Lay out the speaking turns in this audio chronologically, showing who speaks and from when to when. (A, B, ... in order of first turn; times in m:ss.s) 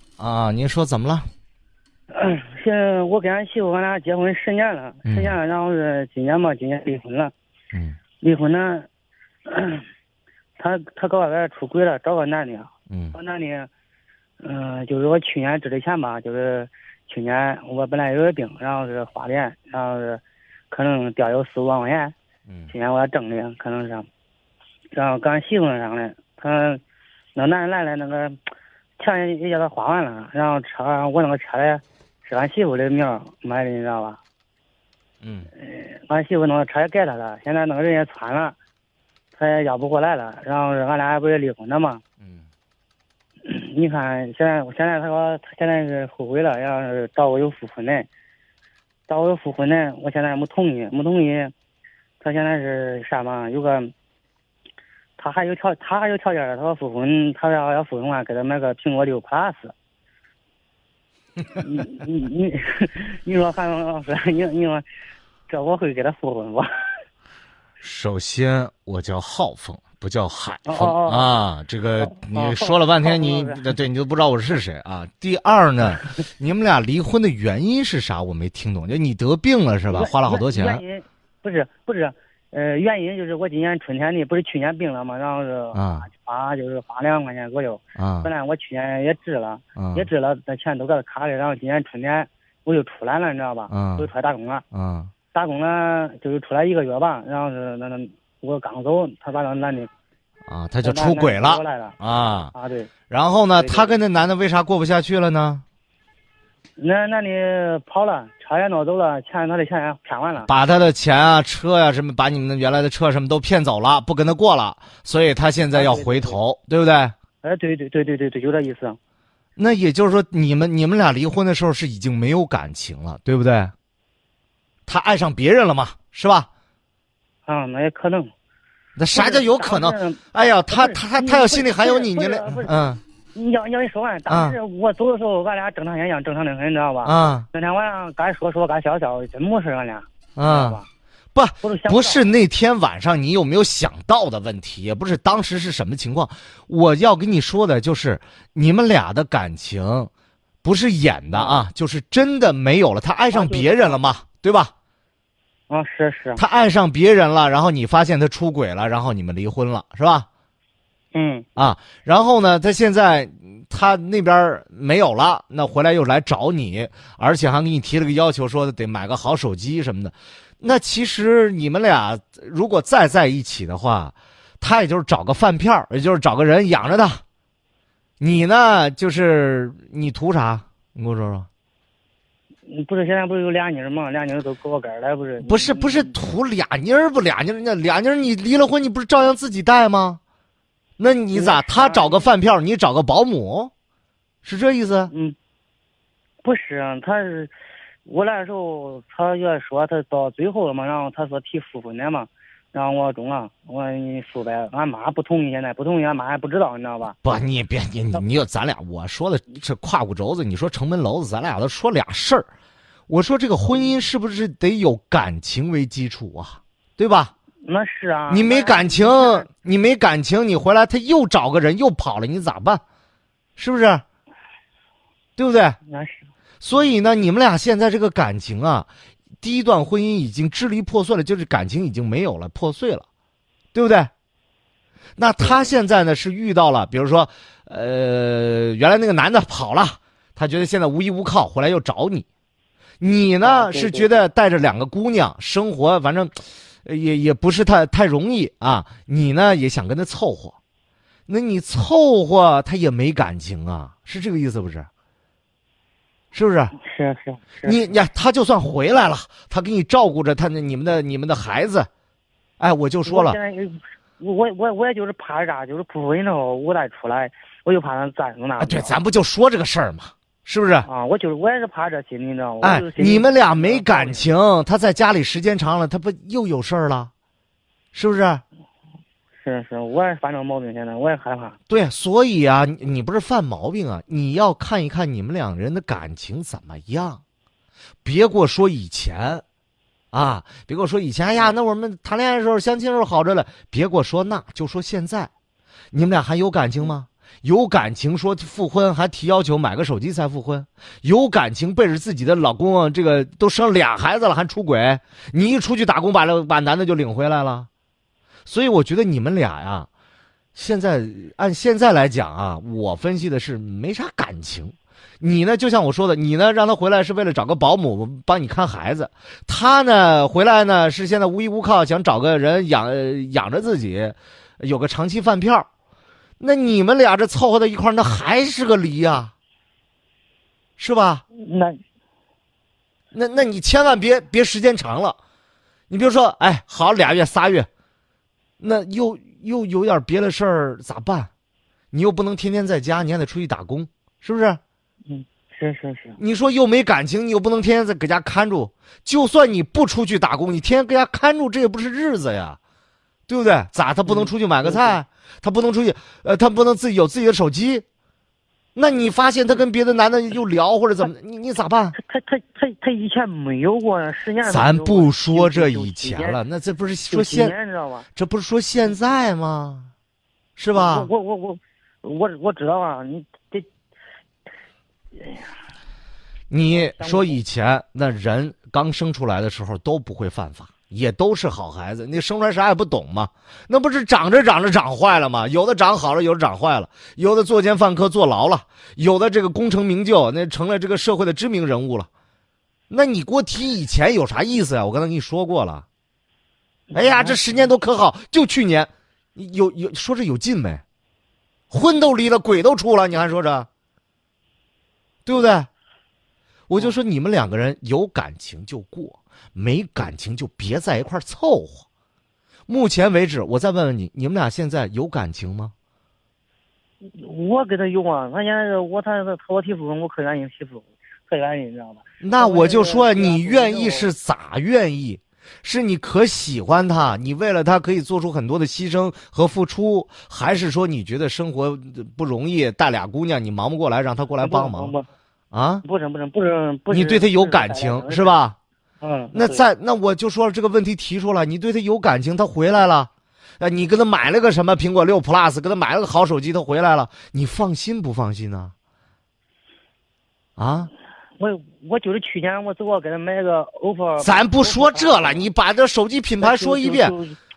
0:00.2-0:01.3 A
0:02.1-0:07.3 B
0:05.0-0:05.4 A
0:07.7-0:08.0 A
0:08.2-0:08.9 B
0:09.5-0:09.8 B
0:10.6-0:13.7 B
0:12.9-0:13.1 A
0:14.4-0:22.1 B
0:22.5-0:22.7 A
0:22.7-0:24.0 B
0:24.9-0:26.8 B
0:27.4-0:28.4 B
0:29.0-0:34.2 B
0:35.2-0:35.5 A
0:35.6-0:38.5 B
0:39.3-0:42.0 B
0:42.2-0:42.4 A
0:43.4-0:48.1 B
0:49.1-0:51.5 B
0:52.2-0:53.9 B
0:55.2-0:59.7 B
1:01.6-1:04.8 B
1:05.5-1:06.8 B
1:07.8-1:20.8 A
1:10.6-1:11.3 B
1:12.0-1:13.6 B
1:19.9-1:34.6 B
1:25.7-1:26.1 A
1:28.0-1:28.3 A
1:29.8-1:30.1 A
1:33.7-1:34.1 A
1:34.7-1:35.1 A
1:35.3-1:39.9 B
1:40.4-1:42.5 A
1:40.8-1:42.0 B
1:42.5-1:42.9 B
1:43.1-1:45.6 A
1:43.5-1:44.0 B
1:46.8-1:50.5 B
1:50.4-1:57.1 A
1:55.7-1:56.4 B
1:57.4-1:59.0 B
1:59.6-2:03.7 A
2:04.9-2:06.5 A
2:07.4-2:08.3 B
2:09.0-2:13.0 A
2:09.1-2:20.9 B
2:14.3-2:14.6 A
2:17.0-2:17.4 A
2:20.4-2:20.8 A
2:21.3-2:30.1 A
2:21.6-2:22.2 B
2:30.6-2:34.7 A
2:31.3-2:31.6 B
2:33.3-2:34.0 B
2:35.7-2:36.4 B
2:36.4-2:40.3 A
2:41.1-2:41.5 B
2:41.6-2:57.2 A
2:58.2-3:01.5 A
3:02.7-3:06.2 B
3:05.4-3:10.2 A
3:11.0-3:13.7 A
3:11.3-3:12.3 B
3:14.4-3:15.1 A
3:15.1-3:15.4 B
3:16.4-3:17.5 B
3:18.0-3:27.2 B
3:27.2-3:32.5 A
3:33.1-3:37.3 A
3:37.6-3:39.5 B
3:38.3-3:42.8 A
3:43.6-3:44.0 A
3:45.4-3:45.8 A
3:45.8-3:46.2 B
3:46.6-3:48.9 A
3:49.4-3:53.0 A
3:53.7-3:54.1 A
3:55.2-4:02.3 A
3:55.4-3:55.7 B
4:03.0-4:10.6 A
4:03.4-4:04.1 B
4:11.3-4:14.9 A
4:16.3-4:16.7 A
4:16.8-4:17.8 B
4:17.6-4:21.9 A
4:22.6-4:23.4 A
4:23.0-4:29.0 B
4:28.6-4:30.9 A
4:30.8-4:34.2 B
4:32.6-4:37.1 A
4:37.9-4:38.4 A
4:39.4-4:41.6 B
4:41.7-4:47.2 A
4:48.0-4:49.4 A
4:50.1-4:55.3 A
4:55.9-5:07.7 A
5:08.4-5:09.9 A
5:10.5-5:25.7 A
5:26.4-5:29.3 A
5:30.8-5:31.2 A
5:31.3-5:31.8 B
5:33.1-5:35.2 A
5:35.9-5:37.7 A
5:38.6-5:41.3 A
5:41.9-5:44.6 A
5:45.1-5:46.2 B
5:46.2-5:52.6 A
5:53.3-5:57.8 A
5:54.1-5:55.0 B
5:58.8-6:02.0 A
6:01.9-6:06.4 B
6:04.4-6:07.5 A
6:07.1-6:08.1 B
6:08.1-6:09.9 A
6:10.6-6:11.1 A
6:10.7-6:13.7 B
6:15.2-6:15.4 B
6:16.5-6:32.1 A
6:16.7-6:17.4 B
6:32.9-6:35.8 A
6:36.9-6:37.7 B
6:36.9-6:40.8 A
6:41.7-6:43.7 A
6:45.2-6:45.7 A
6:46.7-6:51.8 A
6:52.7-6:55.7 A
6:57.2-7:04.1 B
7:02.2-7:14.9 A
7:14.4-7:15.1 B
7:15.5-7:15.8 A
7:15.8-7:18.3 B
7:16.9-7:18.6 A
7:19.0-7:19.6 B
7:19.3-7:28.7 A
7:30.6-7:30.9 A
7:31.4-7:35.4 B
7:34.2-7:37.1 A
7:36.4-7:37.4 B